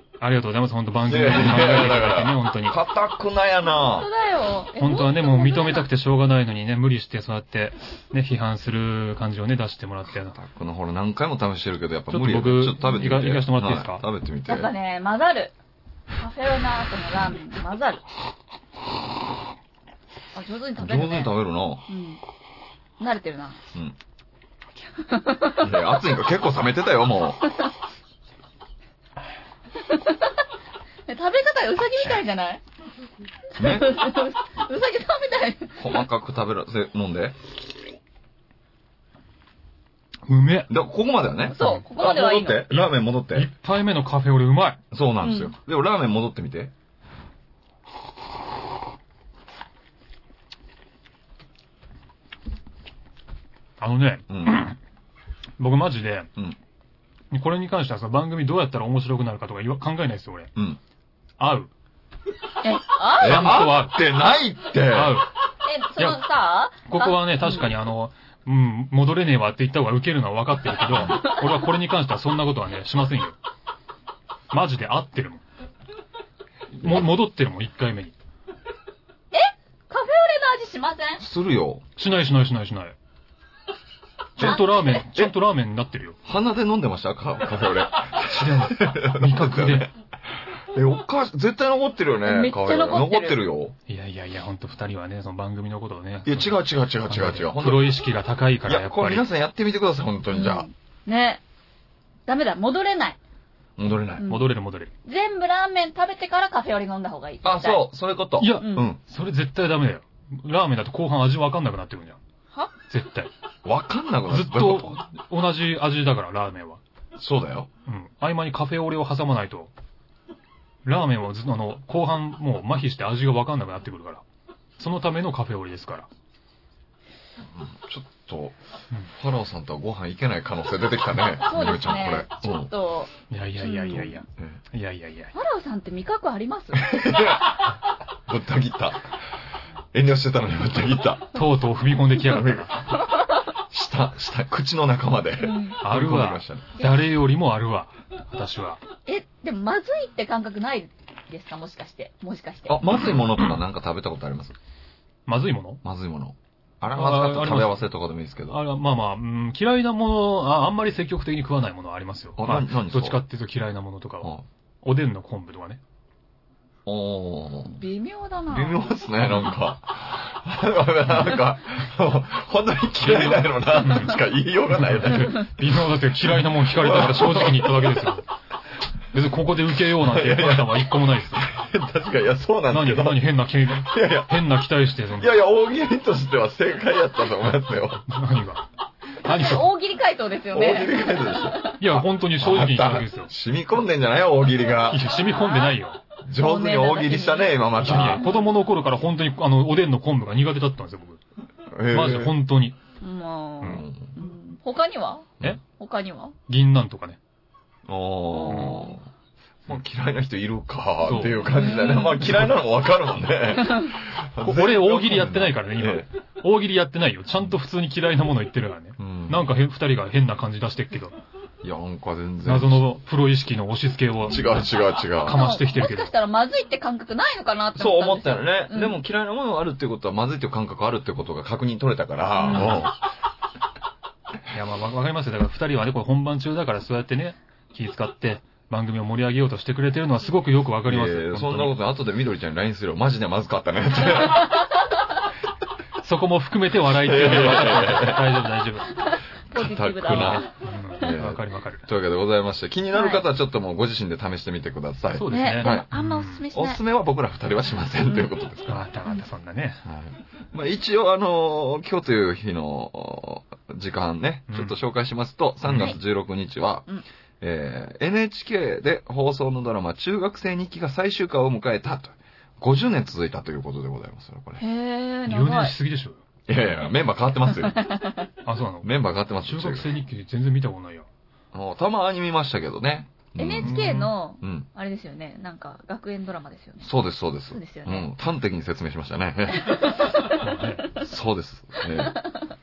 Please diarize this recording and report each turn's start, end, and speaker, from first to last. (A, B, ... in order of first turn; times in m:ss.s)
0:00.2-0:02.8 A
0:01.1-0:04.1 B
0:03.7-0:05.9 C
0:04.8-0:10.4 A
0:10.3-0:14.7 B
0:12.1-0:14.0 A
0:14.5-0:15.5 C
0:16.1-0:18.0 C
0:20.3-0:21.3 C
0:20.8-0:21.8 B
0:21.9-0:22.2 C
0:23.0-0:23.6 C
0:24.9-0:26.0 C
0:25.5-0:27.5 B
0:29.8-0:30.3 C
0:31.1-0:32.6 C
0:33.5-0:36.0 C
0:33.6-0:34.0 B
0:35.8-0:37.4 B
0:40.3-0:40.7 A
0:40.7-0:43.5 B
0:41.5-0:42.8 C
0:41.6-0:41.8 A
0:42.7-0:44.8 A
0:44.9-0:46.7 B
0:45.2-0:45.5 C
0:53.8-0:54.8 A
0:54.3-0:54.7 B
0:55.6-0:56.3 A
0:57.3-1:00.5 A
1:01.4-1:01.7 A
1:02.6-1:03.6 C
1:03.1-1:05.2 B
1:03.2-1:04.0 A
1:04.9-1:05.3 A
1:05.6-1:07.7 C
1:06.0-1:06.2 A
1:06.8-1:13.4 A
1:11.1-1:11.4 C
1:14.5-1:15.4 A
1:16.7-1:18.1 A
1:19.3-1:21.2 C
1:21.2-1:21.8 B
1:22.0-1:23.0 A
1:24.4-1:24.6 B
1:24.4-1:26.2 A
1:24.4-1:25.1 C
1:26.2-1:29.9 B
1:28.2-1:29.9 A
1:30.7-1:33.8 B
1:32.2-1:33.4 C
1:33.9-1:39.2 A
1:36.2-1:38.0 B
1:38.6-1:40.7 B
1:40.3-1:41.4 C
1:42.3-1:43.2 C
1:43.8-1:44.2 B
1:44.2-1:44.5 C
1:44.2-1:44.9 A
1:45.0-1:47.8 C
1:47.4-1:49.0 B
1:48.4-1:52.2 A
1:48.6-1:48.9 C
1:52.9-1:53.3 A
1:53.6-1:55.0 B
1:54.3-1:56.8 A
1:57.2-1:57.7 B
1:57.9-1:59.7 A
2:00.8-2:04.2 A
2:04.8-2:06.1 A
2:07.5-2:08.6 B
2:09.1-2:12.7 B
2:11.4-2:14.2 C
2:13.3-2:15.3 A
2:15.3-2:17.0 C
2:16.8-2:19.2 B
2:19.9-2:21.4 B
2:21.3-2:22.8 A
2:22.2-2:22.9 B
2:23.7-2:26.8 B
2:25.4-2:25.8 C
2:25.8-2:28.8 A
2:29.1-2:33.0 C
2:32.7-2:34.6 B
2:35.3-2:35.8 A
2:35.8-2:38.6 B
2:36.9-2:37.8 A
2:38.5-2:45.8 A
2:42.4-2:43.2 B
2:46.8-2:47.8 B
2:47.8-2:48.8 C
2:48.5-2:55.5 B
2:53.0-2:54.2 A
2:54.7-2:58.2 A
2:56.3-2:58.0 B
2:59.1-3:01.5 A
2:59.9-3:04.5 B
3:02.7-3:05.4 A
3:05.1-3:08.1 B
3:08.1-3:08.6 A
3:09.2-3:09.7 A
3:09.2-3:11.8 C
3:10.5-3:15.2 B
3:11.8-3:13.3 A
3:14.9-3:16.0 A
3:15.2-3:15.8 C
3:16.2-3:18.2 B
3:16.3-3:18.5 C
3:17.8-3:21.2 A
3:21.7-3:22.4 B
3:21.9-3:22.8 A
3:23.0-3:26.4 C
3:23.6-3:24.2 B
3:26.5-3:27.2 A
3:27.8-3:29.0 B
3:28.3-3:28.9 C
3:28.5-3:28.8 A
3:29.7-3:36.1 B
3:31.0-3:31.6 A
3:31.5-3:32.2 C
3:32.2-3:32.5 A
3:33.6-3:33.9 C
3:34.4-3:41.2 A
3:39.0-3:39.4 B
3:41.6-3:42.8 B
3:42.4-3:44.6 A
3:44.2-3:45.4 B
3:45.2-3:46.1 A
3:45.2-3:49.0 C
3:47.7-3:53.0 B
3:52.4-3:52.8 C
3:52.4-3:52.9 A
3:54.5-4:01.7 A
4:00.8-4:04.6 B
4:04.2-4:04.6 C
4:06.0-4:09.0 A
4:06.9-4:08.4 B
4:08.9-4:10.5 C
4:09.5-4:10.4 B
4:10.0-4:11.8 A
4:11.0-4:15.9 B
4:12.9-4:13.2 C
4:15.1-4:16.4 A
4:15.3-4:16.8 C
4:16.5-4:18.8 B
4:18.0-4:18.3 C
4:18.7-4:19.8 A
4:19.8-4:26.9 B
4:24.5-4:24.8 A
4:25.6-4:25.9 A
4:27.4-4:34.6 B
4:34.6-4:35.7 C
4:35.3-4:36.2 A
4:36.5-4:37.9 B
4:37.5-4:38.3 C
4:38.4-4:41.1 A
4:38.8-4:39.9 B
4:41.5-4:43.9 B
4:43.4-4:46.9 C
4:43.6-4:44.1 A
4:44.4-4:44.7 B
4:46.8-4:50.1 B
4:47.5-4:48.1 C
4:49.5-4:51.0 C
4:50.3-4:50.8 A
4:51.0-4:52.2 B
4:51.8-4:52.4 C